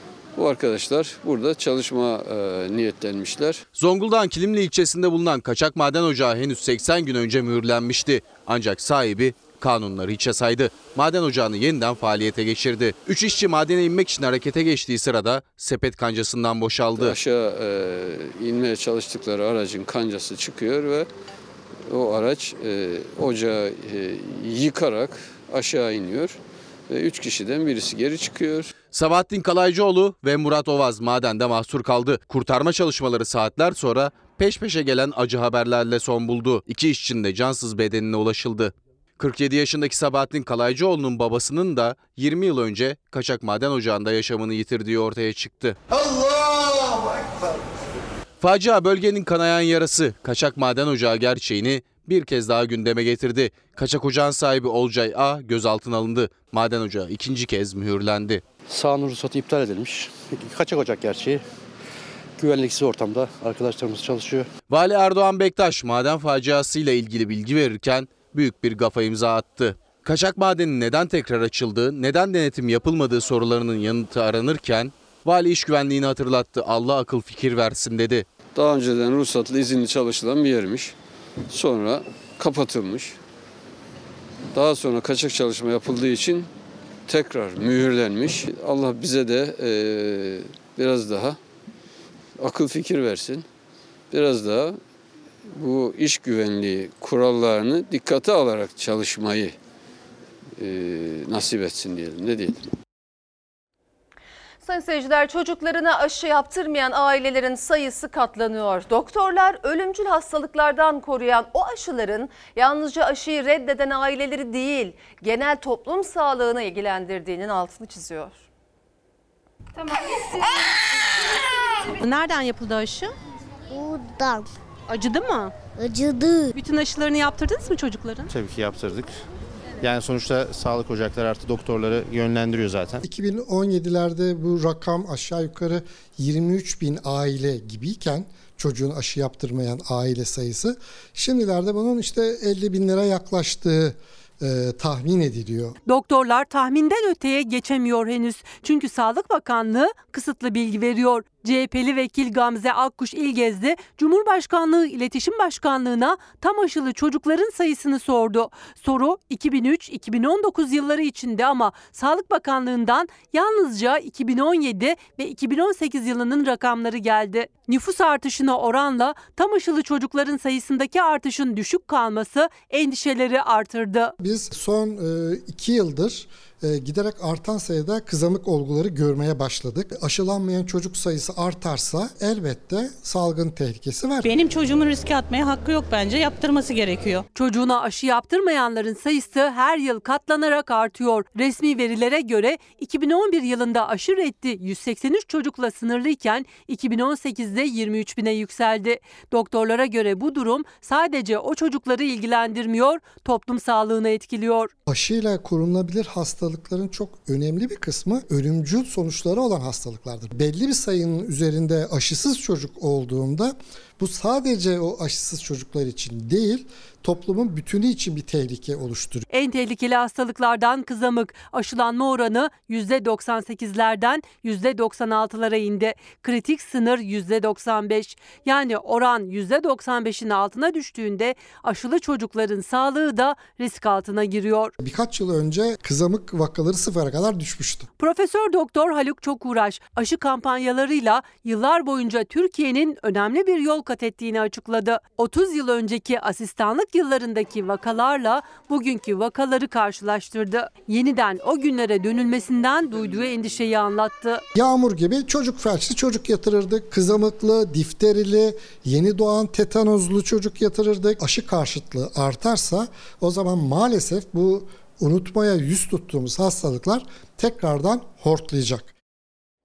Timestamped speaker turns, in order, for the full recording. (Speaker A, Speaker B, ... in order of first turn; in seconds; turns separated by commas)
Speaker A: 0.4-3.6, Speaker B: 3.8-17.2, Speaker A: 17.2-21.1, Speaker A: 21.9-26.4, Speaker A: 26.9-28.7, Speaker B: 28.9-45.8, Speaker B: 48.4-58.4, Speaker C: 58.7-61.4, Speaker C: 62.4-64.5, Speaker B: 64.7-78.3, Speaker A: 78.6-80.9, Speaker A: 81.5-83.2, Speaker A: 84.5-86.5, Speaker A: 87.1-91.4, Speaker A: 92.4-93.4, Speaker A: 94.1-94.8, Speaker A: 95.6-99.5, Speaker A: 100.6-102.6, Speaker D: 104.6-118.4, Speaker E: 122.2-122.7, Speaker F: 124.9-125.4, Speaker F: 126.6-128.3, Speaker G: 128.3-129.1, Speaker G: 129.8-133.0, Speaker H: 133.0-145.8, Speaker F: 145.9-174.1, Speaker H: 174.2-184.3, Speaker E: 184.2-187.2, Speaker F: 187.3-204.7, Speaker H: 204.9-219.3, Speaker F: 219.3-234.7, Speaker H: 234.8-237.9, Speaker F: 238.0-254.4, Speaker H: 254.6-268.9